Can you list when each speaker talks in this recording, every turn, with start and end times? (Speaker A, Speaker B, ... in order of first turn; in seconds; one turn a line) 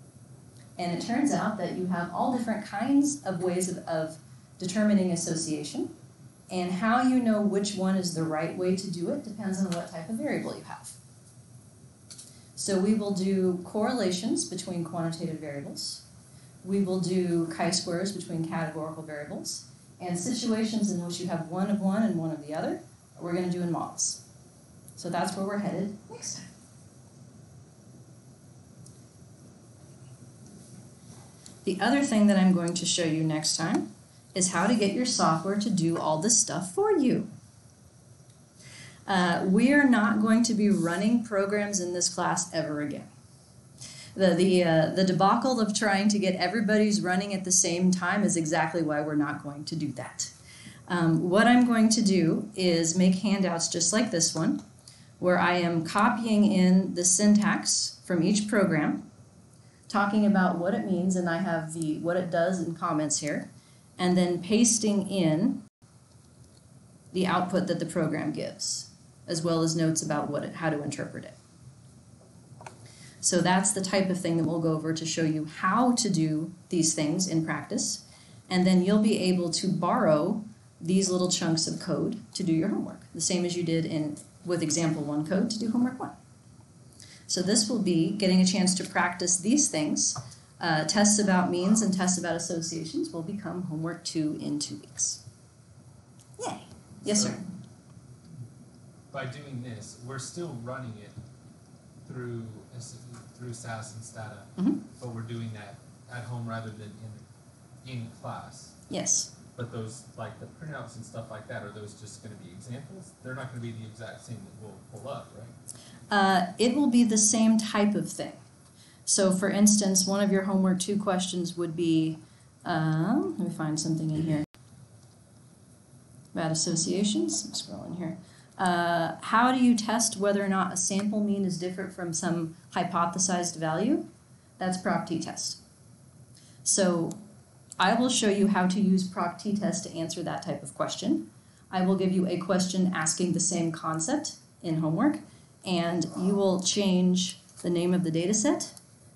Speaker A: 0.8-5.9
Speaker A: 6.5-11.0
Speaker A: 12.6-16.0
Speaker A: 16.6-24.2
Speaker A: 25.0-26.4
Speaker A: 31.6-37.3
Speaker A: 39.1-43.1
Speaker A: 44.2-50.3
Speaker A: 50.9-54.6
Speaker A: 55.2-59.1
Speaker A: 59.9-65.6
Speaker A: 67.1-71.3
Speaker A: 73.2-86.2
Speaker A: 87.3-95.2
Speaker A: 96.4-97.4
Speaker B: 97.1-97.4
Speaker B: 99.1-101.2
Speaker B: 102.0-107.2
Speaker A: 104.6-104.8
Speaker B: 107.8-108.8
Speaker A: 108.9-109.3
Speaker B: 109.5-115.5
Speaker A: 116.1-118.4
Speaker A: 119.1-124.5
Speaker A: 126.3-135.6
Speaker A: 136.7-137.2
Speaker A: 137.8-148.8